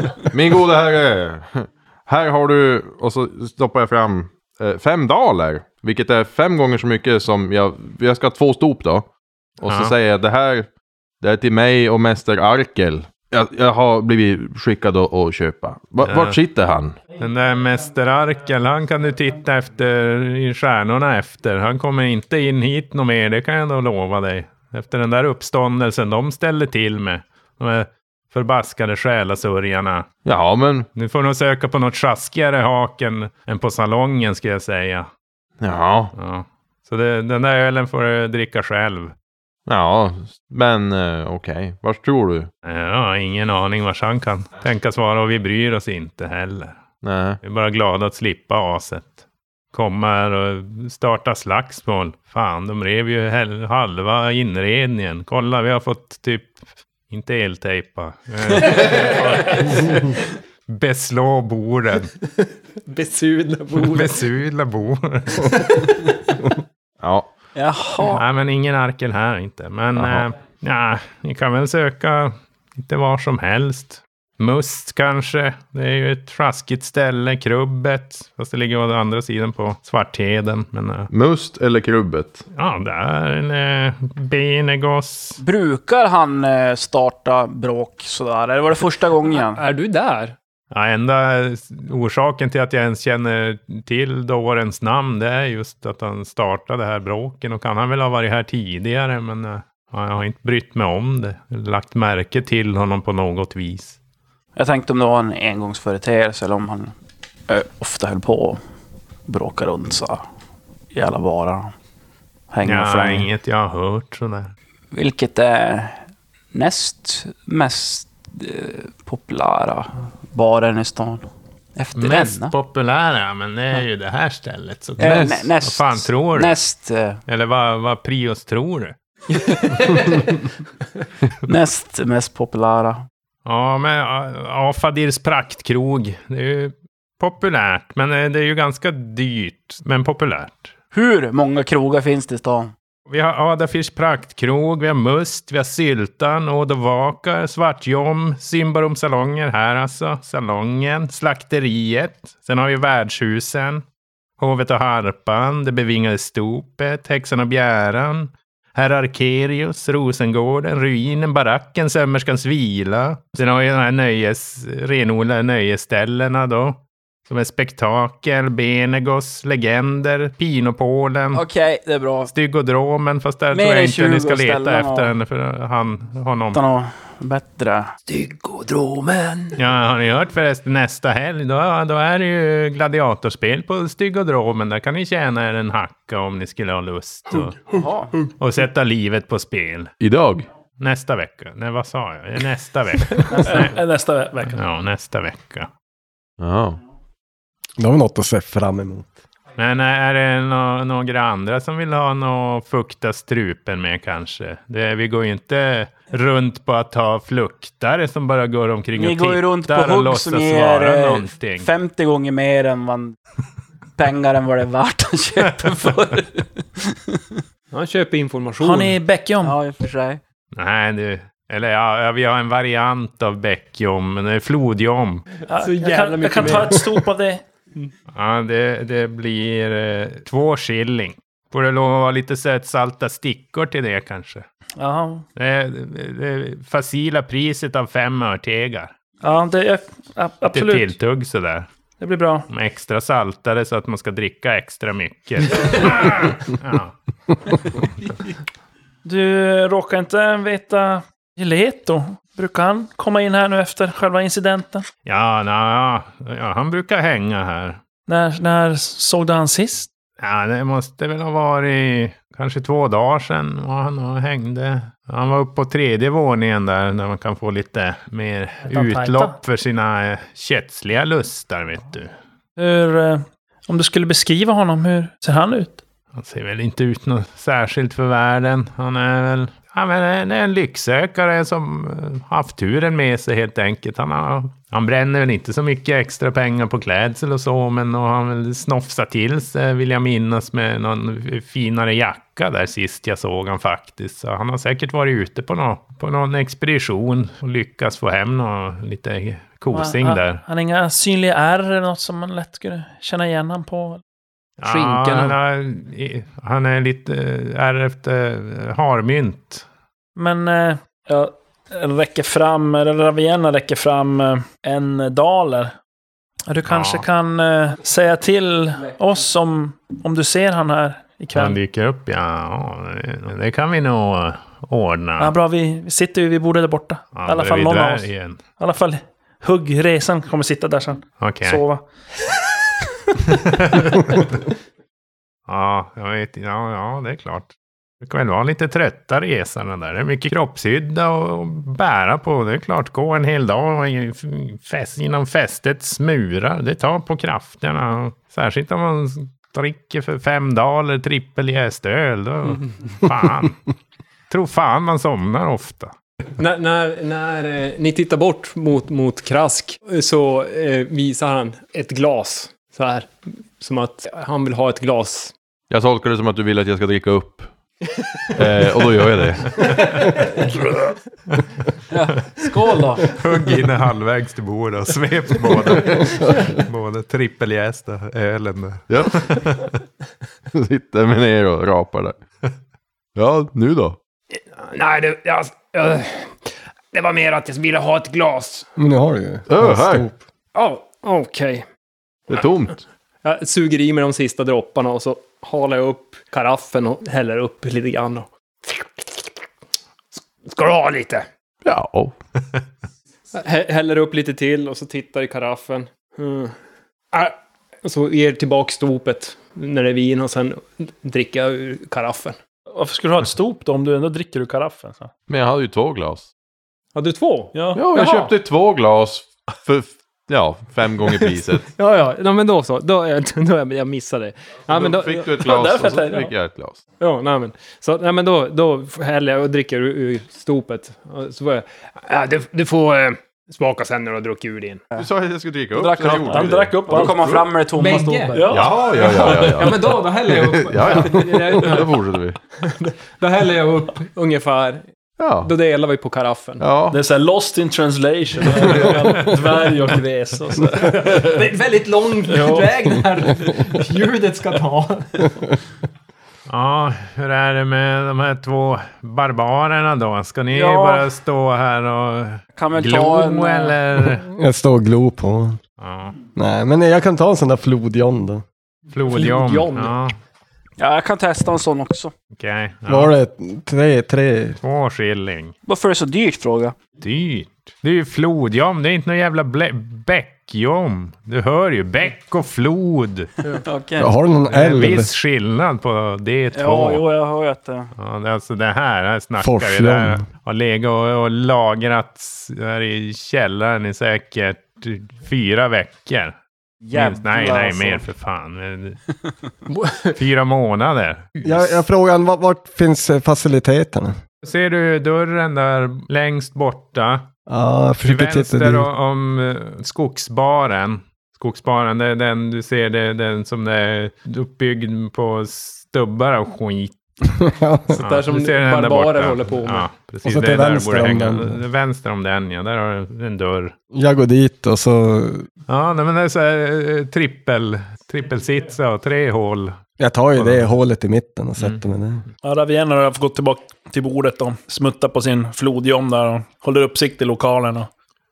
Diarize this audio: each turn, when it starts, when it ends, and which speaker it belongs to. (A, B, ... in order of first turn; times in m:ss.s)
0:00.3-0:17.0 A
0:09.6-0:09.9 B
0:16.0-0:16.4 B
0:17.1-0:30.1 B
0:30.2-0:30.9 A
0:30.9-0:35.1 B
0:35.6-0:36.1 A
0:36.1-0:39.1 B
0:39.6-0:42.5 A
0:42.6-0:46.8 B
0:47.0-0:47.4 A
0:47.4-0:49.2 B
0:49.7-1:00.1 B
0:58.6-0:59.7 C
1:00.7-1:02.1 B
1:02.8-1:04.2 D
1:03.8-1:06.0 B
1:07.0-1:07.3 A
1:07.5-1:08.2 C
1:08.1-1:21.1 B
1:09.9-1:10.3 A
1:21.1-1:22.4 A
1:22.5-1:25.4 B
1:25.4-1:29.6 C
1:29.4-1:30.4 D
1:30.7-1:44.0 B
1:44.6-1:46.9 C
1:47.5-1:48.6 C
1:49.3-1:50.2 C
1:50.9-1:51.7 C
1:52.5-1:53.3 C
1:52.6-1:54.5 B
1:54.9-2:02.5 C
2:01.9-2:06.6 B
2:05.0-2:05.5 A
2:05.0-2:07.2 C
2:07.3-2:08.9 B
2:09.3-2:10.2 D
2:11.4-2:13.1 C
2:13.4-2:20.7 B
2:20.9-2:22.7 C
2:23.1-2:33.8 B
2:34.4-2:51.4 B
2:51.3-2:52.3 C
2:52.3-2:56.6 B
2:53.5-2:55.1 C
2:56.5-2:57.9 C
2:58.1-2:59.6 D
2:59.6-3:07.6 B
3:07.7-3:08.1 C
3:08.4-3:09.9 B
3:10.0-3:10.4 A
3:10.8-3:13.8 B
3:13.4-3:14.6 E
3:13.4-3:13.7 C
3:14.4-3:15.7 B
3:16.4-3:16.8 A
3:17.8-3:19.1 F
3:19.6-3:31.7 B
3:28.9-3:33.2 C
3:34.0-3:37.4 C
3:37.7-3:39.0 D
3:38.6-3:39.6 E
3:39.4-3:40.2 C
3:40.5-3:45.3 B
3:45.5-3:47.4 E
3:45.5-3:46.8 D
3:48.1-3:54.4 B
3:54.8-3:55.2 E
3:55.4-3:58.9 B
3:59.2-4:00.9 E
4:00.5-4:01.7 B
4:02.0-4:02.5 E
4:02.5-4:06.9 B
4:09.0-4:14.8 E
4:15.0-4:17.8 B
4:18.1-4:19.9 E
4:20.2-4:32.1 B
4:28.7-4:29.4 E
4:32.6-4:35.8 E
4:36.1-5:00.4 B
4:59.7-5:04.0 E
5:04.6-5:09.6 B
5:04.6-5:05.4 D
5:10.2-5:15.7 E
5:16.5-5:21.6 E
5:16.7-5:17.0 B
5:21.3-5:25.3 B
5:25.2-5:31.8 E
5:27.1-5:28.4 B
5:31.2-5:31.6 B
5:33.2-5:34.2 B
5:35.5-5:37.5 B
5:38.0-5:53.6 B
5:54.3-5:55.9 B
5:56.4-6:05.3 D
6:05.7-6:07.5 A
6:08.3-6:09.6 A
6:09.5-6:10.2 B
6:10.0-6:10.3 D
6:11.9-6:13.2 C
6:13.0-6:19.8 B
6:18.9-6:19.2 A
6:20.5-6:22.2 A
6:23.2-6:24.0 A
6:24.3-6:28.7 D
6:28.8-6:30.2 F
6:29.5-6:30.1 A
6:30.5-6:31.6 D
6:32.3-6:32.8 A
6:33.2-6:39.3 D
6:40.2-6:41.2 D
6:41.6-6:42.2 A
6:43.3-6:46.5 D
6:47.1-6:52.4 D
6:52.7-6:55.1 E
6:55.3-6:56.3 A
6:56.9-6:58.2 D
6:57.5-6:58.3 E
6:57.7-7:01.7 A
7:01.7-7:05.3 D
7:04.7-7:06.8 A
7:05.4-7:06.3 E
7:07.0-7:14.8 D
7:15.0-7:17.4 A
7:15.8-7:17.4 E
7:15.8-7:18.6 C
7:17.8-7:22.0 D
7:18.3-7:19.5 E
7:18.5-7:22.4 A
7:22.5-7:24.9 D
7:25.2-7:25.5 A
7:25.4-7:26.6 D
7:26.6-7:27.0 A
7:26.9-7:31.4 E
7:30.9-7:35.3 D
7:32.3-7:32.6 E
7:36.5-7:44.2 B
7:40.5-7:41.1 C
7:42.6-7:43.8 C
7:44.3-7:45.6 F
7:45.8-7:46.1 B
7:46.4-7:48.4 F
7:48.9-7:50.1 B
7:49.1-7:49.9 D
7:50.8-7:52.1 C
7:52.3-7:53.1 B
7:52.9-7:54.6 F
7:54.6-7:55.5 B
7:55.6-7:56.8 C
7:57.0-8:03.3 B
8:03.5-8:04.1 C
8:04.0-8:05.1 F
8:04.4-8:07.0 B
8:06.5-8:07.9 C
8:08.0-8:16.4 B
8:09.4-8:10.2 F
8:16.8-8:18.1 C
8:16.9-8:19.0 B
8:19.7-8:20.2 D
8:20.1-8:21.7 B
8:21.4-8:24.2 F
8:24.4-8:27.3 B
8:27.5-8:28.9 F
8:28.0-8:37.0 B
8:37.4-8:38.0 F
8:37.9-8:39.9 D
8:38.0-8:43.7 B
8:40.2-8:41.6 F
8:43.9-8:45.4 F
8:45.7-8:49.8 B
8:50.0-8:52.2 F
8:50.4-8:50.6 B
8:52.4-8:57.9 E